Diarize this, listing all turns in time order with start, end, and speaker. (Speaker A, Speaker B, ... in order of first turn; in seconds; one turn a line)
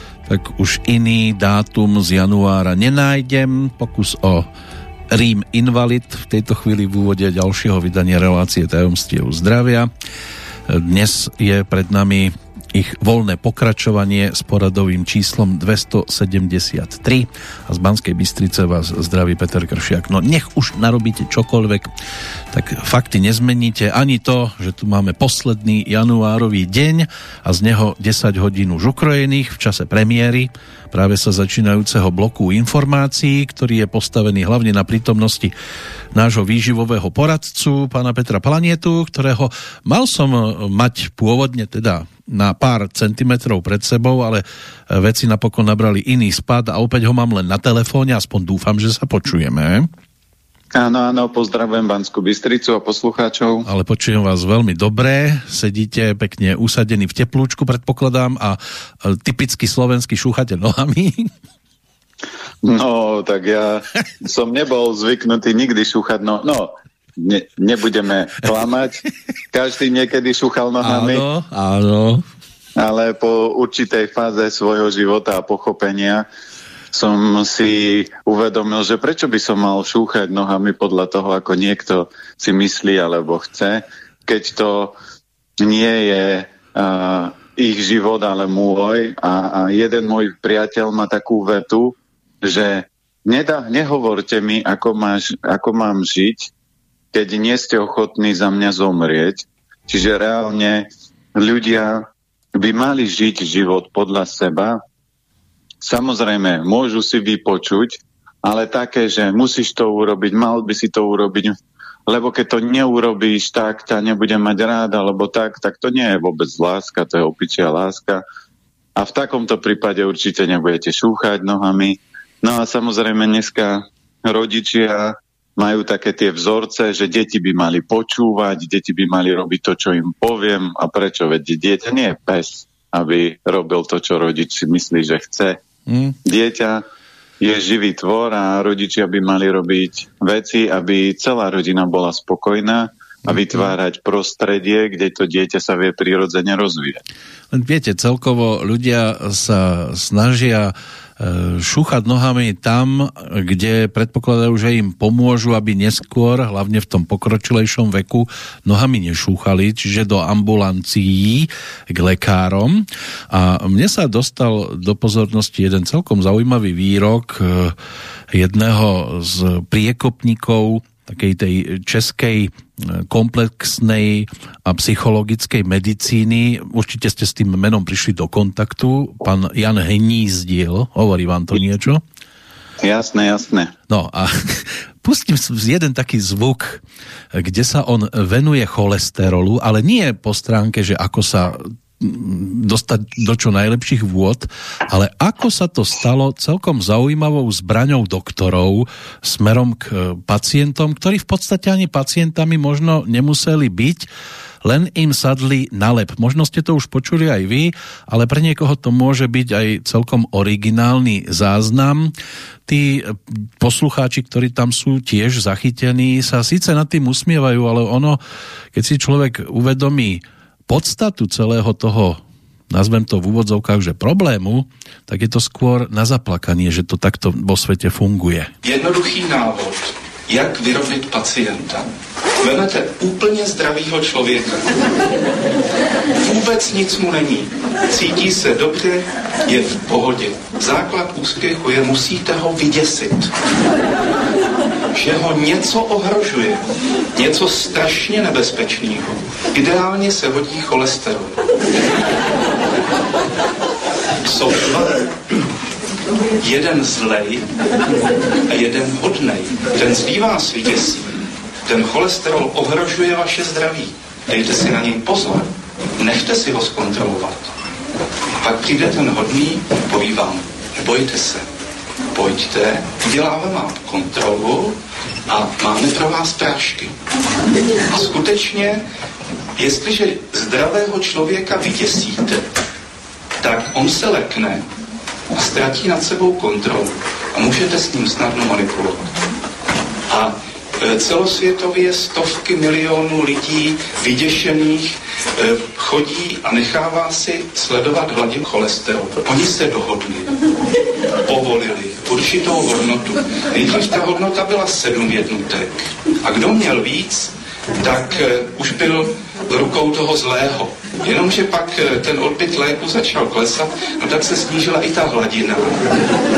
Speaker A: 0.2-4.5
Speaker A: 5.1-9.9
Speaker A: 10.7-21.9
Speaker A: 22.5-35.5
Speaker A: 36.1-49.9
Speaker B: 50.7-53.7
Speaker A: 53.6-61.3
Speaker B: 62.6-71.2
Speaker A: 70.8-72.2
Speaker B: 72.8-76.2
Speaker B: 76.9-84.9
Speaker B: 85.6-96.5
Speaker B: 97.1-102.0
Speaker B: 102.5-104.8
Speaker B: 105.8-111.5
Speaker B: 112.1-118.2
Speaker B: 119.0-135.6
Speaker A: 135.9-136.2
Speaker B: 136.2-136.8
Speaker B: 137.4-147.0
Speaker A: 147.5-167.7
Speaker A: 168.3-182.0
Speaker B: 182.8-183.7
Speaker A: 183.9-186.8
Speaker A: 187.3-204.1
Speaker A: 204.6-212.1
Speaker A: 212.7-218.2
Speaker A: 218.7-228.5
Speaker C: 228.6-234.9
Speaker C: 236.2-243.3
Speaker C: 244.9-251.5
Speaker C: 254.2-255.1
Speaker C: 256.4-257.5
Speaker C: 258.4-267.5
Speaker C: 268.4-271.5
Speaker C: 272.1-274.8
Speaker C: 275.3-276.9
Speaker C: 277.9-278.8
Speaker C: 279.6-282.5
Speaker C: 283.4-284.7
Speaker C: 285.3-289.1
Speaker C: 290.1-300.4
Speaker C: 301.2-316.1